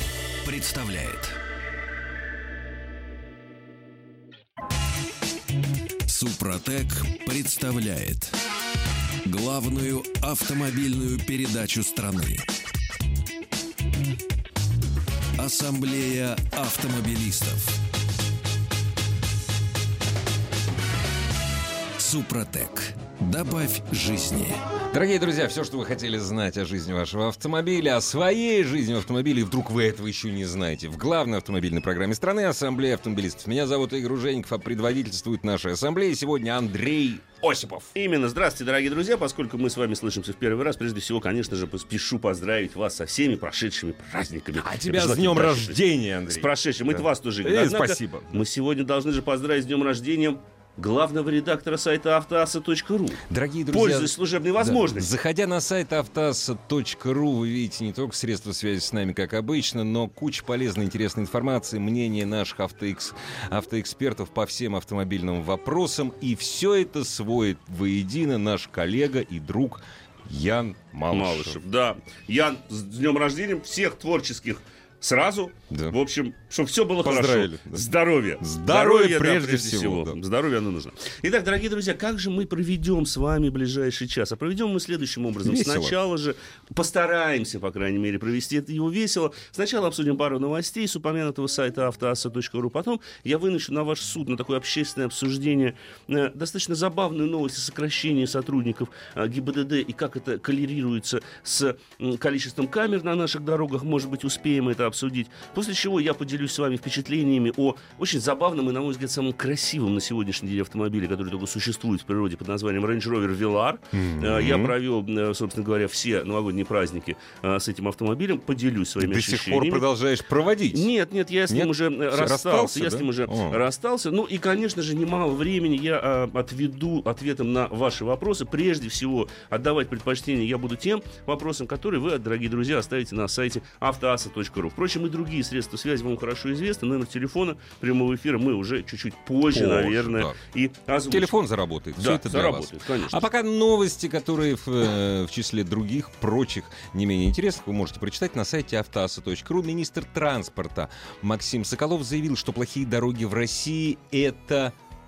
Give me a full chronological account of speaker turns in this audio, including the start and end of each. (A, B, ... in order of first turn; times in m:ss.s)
0:00.4-0:01.4 A
0:06.1-0:08.4 A
0:09.2-0:12.5 A
0:15.4-0:17.8 A
0:22.0-0:24.6 A
0:24.9-0:37.9 B
0:37.9-0:55.1 C
0:44.6-0:48.4 B
0:53.3-1:11.6 B
1:11.1-1:59.8 C
1:15.7-1:16.0 B
1:17.0-1:20.2 B
1:25.4-1:26.0 B
1:53.9-1:54.7 B
1:59.0-2:00.9 B
2:00.7-2:21.3 C
2:01.5-2:03.6 B
2:19.5-2:20.4 B
2:21.1-2:34.8 B
2:22.0-2:23.2 C